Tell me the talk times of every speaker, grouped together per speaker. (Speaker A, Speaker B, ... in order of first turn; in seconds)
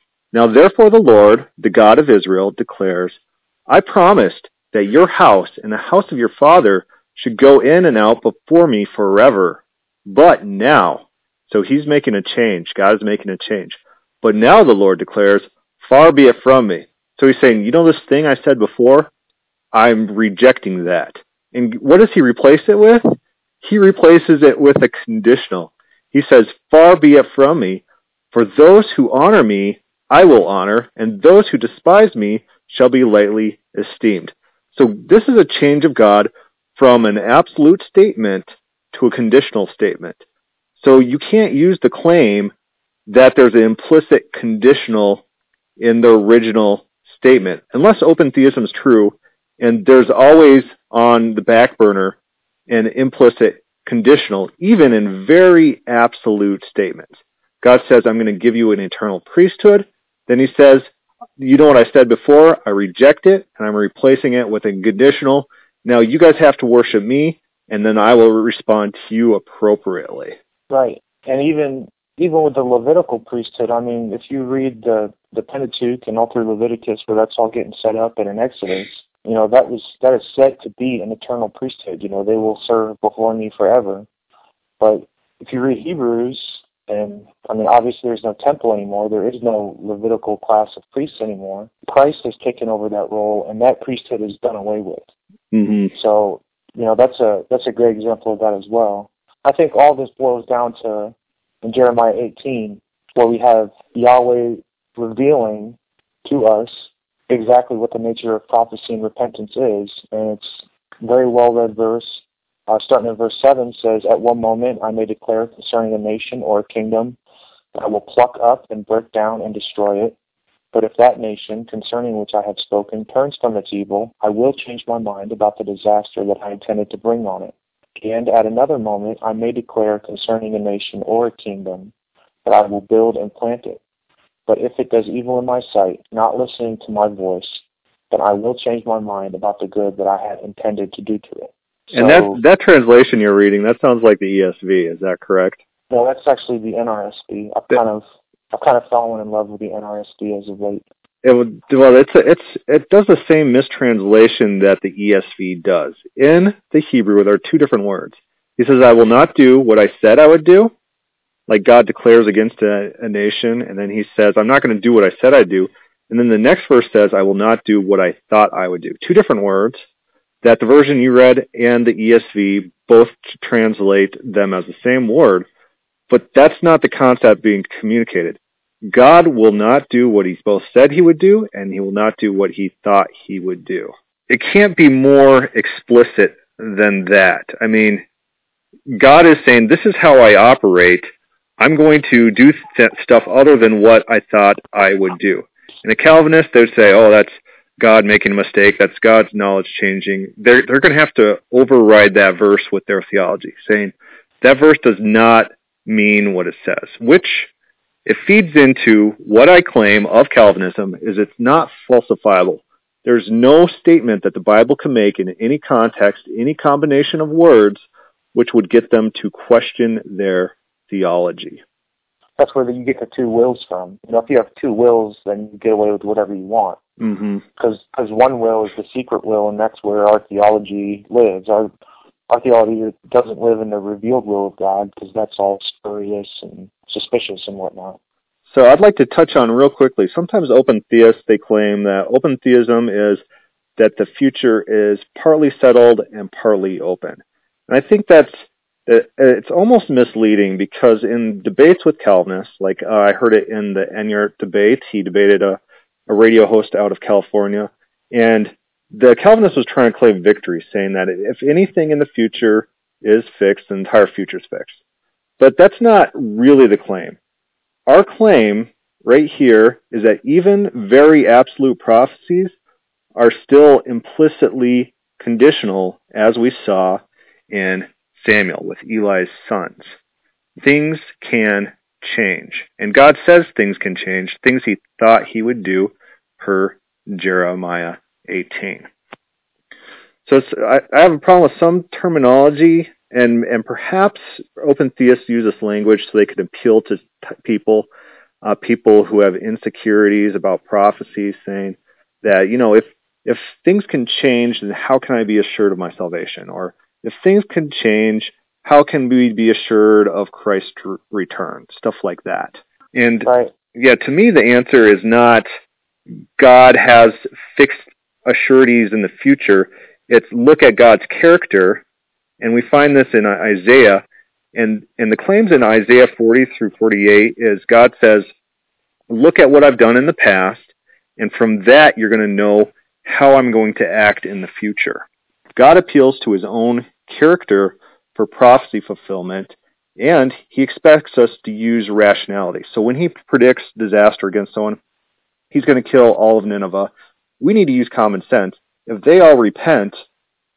Speaker A: 0.3-19.1, 19.7-23.0, 23.6-40.2, 40.8-42.5, 43.1-45.2, 45.8-52.2, 52.7-70.3, 95.5-95.9, 141.9-145.6, 151.2-160.7, 161.5-169.8, 170.4-175.4, 176.1-188.0, 188.9-207.5, 208.1-221.6, 227.0-227.4, 238.5-243.2, 243.8-264.8, 265.4-267.2, 267.9-272.5, 273.1-277.0, 277.5-279.9, 280.6-288.9, 290.2-297.9, 298.4-315.4, 316.4-321.8, 322.4-328.3, 329.1-344.8, 345.5-350.0
Speaker B: 70.7-84.1, 84.8-95.1, 95.9-117.2, 117.7-120.2, 120.7-131.9, 132.4-133.8, 134.5-142.4, 145.9-150.8, 222.4-226.8, 227.6-231.7, 232.3-238.0, 313.2-313.5